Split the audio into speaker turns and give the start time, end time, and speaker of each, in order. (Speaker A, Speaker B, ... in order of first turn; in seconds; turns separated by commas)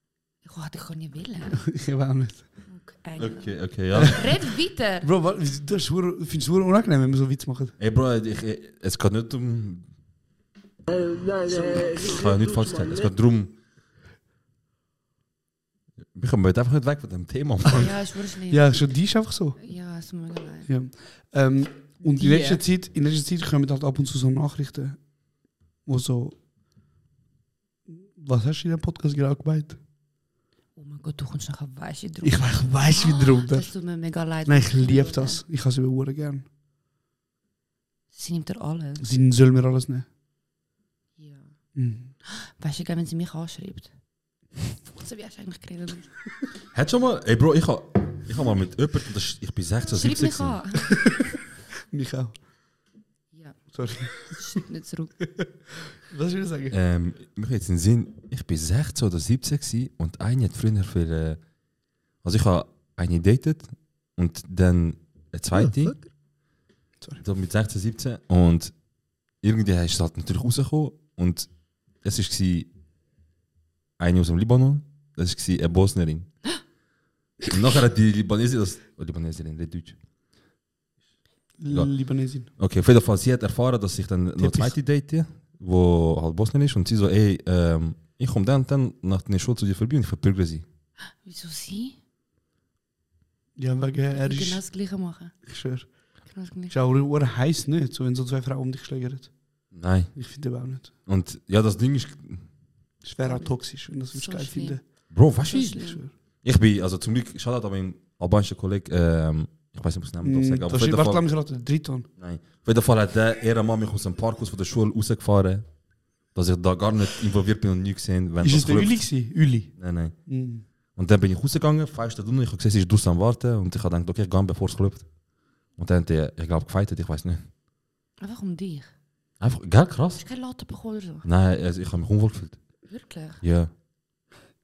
Speaker A: 0.4-1.6, Speaker B: 1.6-2.5, Speaker A: 2.7-5.1, Speaker C: 3.2-4.3, Speaker B: 5.0-7.8, Speaker C: 7.8-9.8, Speaker C: 11.5-13.6, Speaker C: 16.1-18.0, Speaker A: 17.7-18.9, Speaker B: 18.5-19.6, Speaker A: 19.6-20.7, Speaker B: 20.7-25.0, Speaker A: 22.1-22.6, Speaker B: 25.9-26.4, Speaker B: 27.9-29.8, Speaker A: 30.8-35.4, Speaker B: 32.2-33.7, Speaker B: 34.5-36.5, Speaker A: 38.1-39.1, Speaker B: 39.0-40.1, Speaker A: 41.2-41.5, Speaker B: 41.8-42.1, Speaker A: 42.3-43.9, Speaker A: 44.9-46.1, Speaker C: 46.7-50.6, Speaker A: 49.9-51.0, Speaker B: 51.9-52.4, Speaker A: 53.3-55.1, Speaker B: 53.7-54.3, Speaker B: 55.4-56.8, Speaker C: 56.7-61.4, Speaker C: 62.2-66.0, Speaker C: 67.2-68.7, Speaker C: 69.4-71.5, Speaker C: 72.0-72.7, Speaker C: 74.0-76.3, Speaker C: 77.4-80.0, Speaker B: 81.6-82.5, Speaker C: 82.5-90.6, Speaker B: 84.4-84.8, Speaker A: 91.2-92.0, Speaker B: 93.6-94.6, Speaker A: 94.2-95.3, Speaker B: 95.5-95.9, Speaker A: 96.3-96.8, Speaker B: 96.7-99.3, Speaker C: 99.7-100.2, Speaker B: 100.2-100.9, Speaker C: 101.1-102.5, Speaker B: 103.0-104.8, Speaker A: 103.2-104.8, Speaker C: 105.1-105.8, Speaker A: 105.5-106.0, Speaker B: 105.5-106.1, Speaker C: 106.4-111.2, Speaker B: 110.2-112.1, Speaker C: 112.2-115.7, Speaker C: 116.3-120.2, Speaker B: 118.4-119.8, Speaker B: 120.3-120.6, Speaker C: 121.0-125.1, Speaker C: 125.8-127.5, Speaker A: 128.2-128.9, Speaker C: 129.4-130.2, Speaker A: 130.2-131.3, Speaker C: 131.2-132.6, Speaker A: 132.9-133.4, Speaker C: 133.4-133.7